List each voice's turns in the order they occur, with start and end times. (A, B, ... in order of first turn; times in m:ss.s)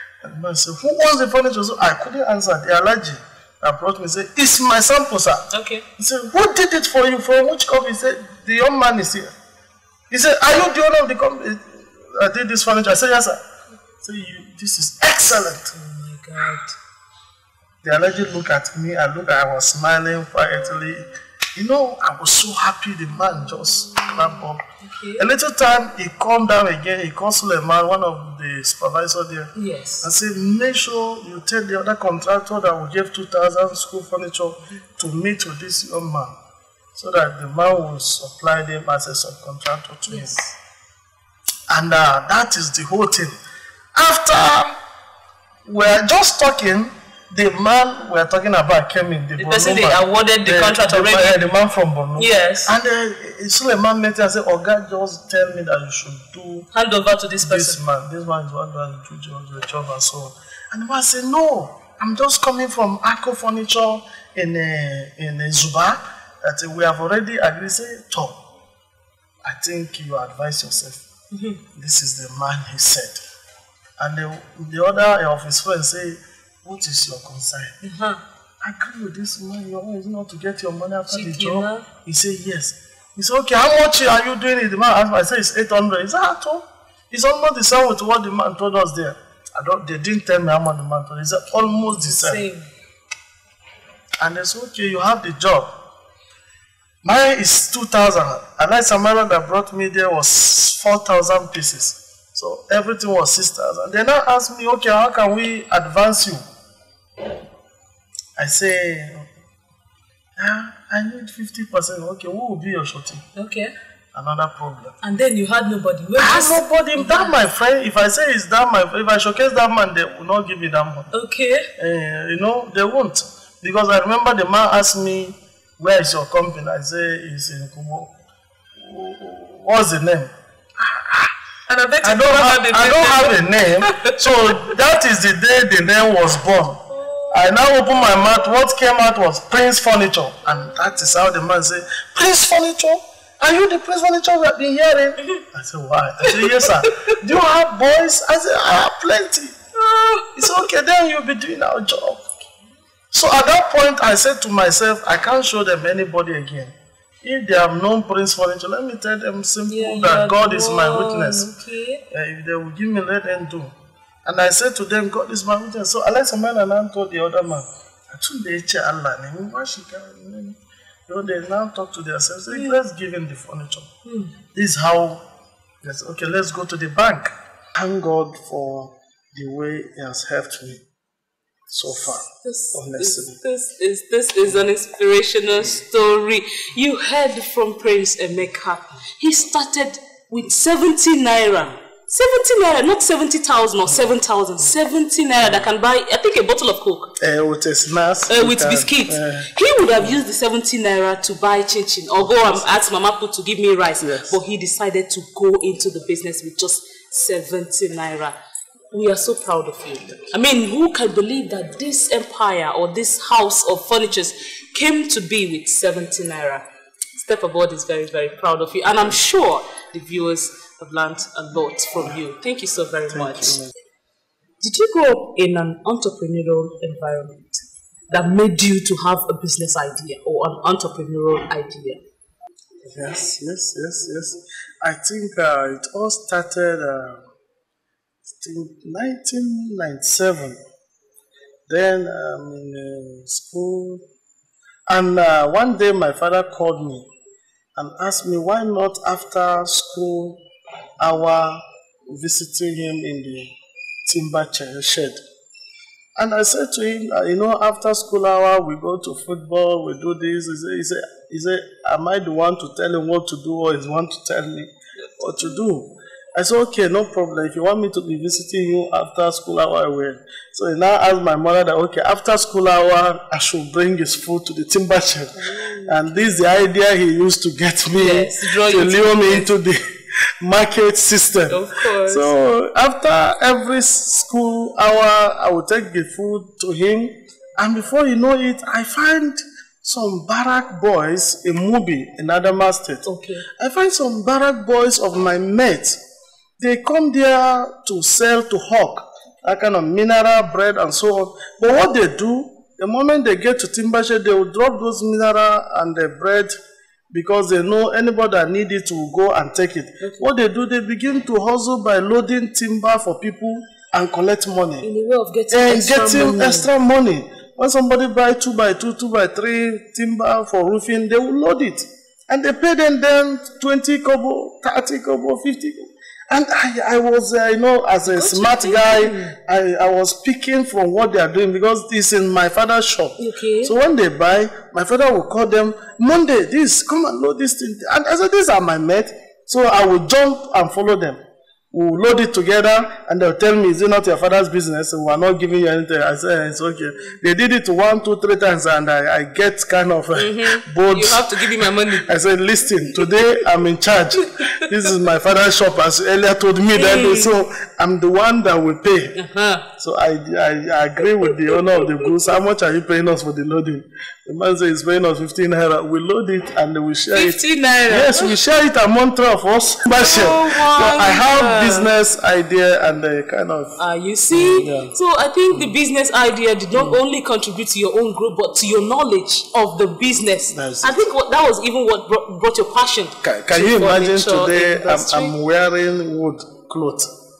0:00.2-0:05.5 A
0:05.5-0:05.8 B
0:06.0-0:09.3 A
0:10.1-0:13.4 A
0:14.0-0:15.7 A
0:15.7-0:16.7 B
0:17.8-0:24.6 A
0:23.2-0:25.3 B
0:25.2-0:36.3 A
0:29.5-0:30.1 B
0:36.9-0:40.4 A
0:40.1-0:40.5 B
0:41.7-0:43.4 A
0:44.0-0:44.7 A
0:45.6-0:56.7 A
0:49.4-0:51.4 B
0:52.2-0:52.8 B
0:56.7-0:57.8 B
0:57.4-1:08.4 A
1:09.4-1:11.0 A
1:11.3-1:11.6 B
1:11.7-1:13.2 A
1:14.0-1:17.8 A
1:17.8-1:18.2 B
1:18.6-1:32.4 A
1:21.1-1:21.9 B
1:31.6-1:32.7 B
1:34.2-1:35.7 A
1:37.0-1:46.4 A
1:48.4-1:49.3 A
1:50.4-1:53.2 A
1:53.3-1:53.7 B
1:54.1-1:54.9 A
1:55.0-1:57.4 B
1:56.2-2:01.1 A
2:01.1-2:01.7 B
2:01.8-2:08.1 A
2:08.8-2:11.3 A
2:11.7-2:14.7 B
2:12.0-2:29.6 A
2:17.0-2:18.5 B
2:26.2-2:27.0 B
2:29.8-2:30.6 B
2:30.3-2:32.2 A
2:33.1-2:41.5 A
2:39.7-2:42.0 B
2:42.1-2:43.7 A
2:44.2-2:53.9 A
2:54.0-2:54.3 B
2:54.5-2:55.2 A
2:55.8-3:00.8 A
3:01.7-3:03.4 A
3:02.0-3:17.1 B
3:17.2-3:20.2 A
3:18.3-3:28.4 B
3:22.2-3:22.8 A
3:24.0-3:24.4 A
3:28.9-3:36.6 B
3:37.2-3:43.6 B
3:43.1-3:43.7 A
3:44.6-3:52.0 B
3:52.8-3:57.2 A
3:58.4-4:00.6 A
4:01.7-4:04.0 A
4:04.9-4:07.1 A
4:07.8-4:10.4 A
4:11.0-4:13.5 A
4:14.0-4:15.2 A
4:16.2-4:39.8 A
4:35.4-4:36.4 B
4:37.9-4:39.5 B
4:40.4-4:53.1 A
4:41.5-4:42.4 B
4:53.0-4:53.4 B
4:53.6-4:56.0 A
4:56.6-5:06.6 A
5:07.1-5:14.9 A
5:10.0-5:10.3 B
5:14.8-5:16.7 B
5:15.5-5:41.2 A
5:28.0-5:29.3 B
5:33.2-5:33.7 B
5:41.7-5:59.2 A
5:50.2-5:52.2 B
5:52.9-5:53.2 B
5:54.2-5:54.9 B
5:56.8-5:57.3 B
5:59.1-5:59.6 B
5:59.8-6:13.8 A
6:01.2-6:02.1 B
6:07.1-6:08.4 B
6:09.9-6:11.9 B
6:13.8-6:25.3 B
6:14.3-6:14.9 A
6:15.5-6:15.8 A
6:16.7-6:17.0 A
6:20.5-6:21.1 A
6:23.2-6:27.1 A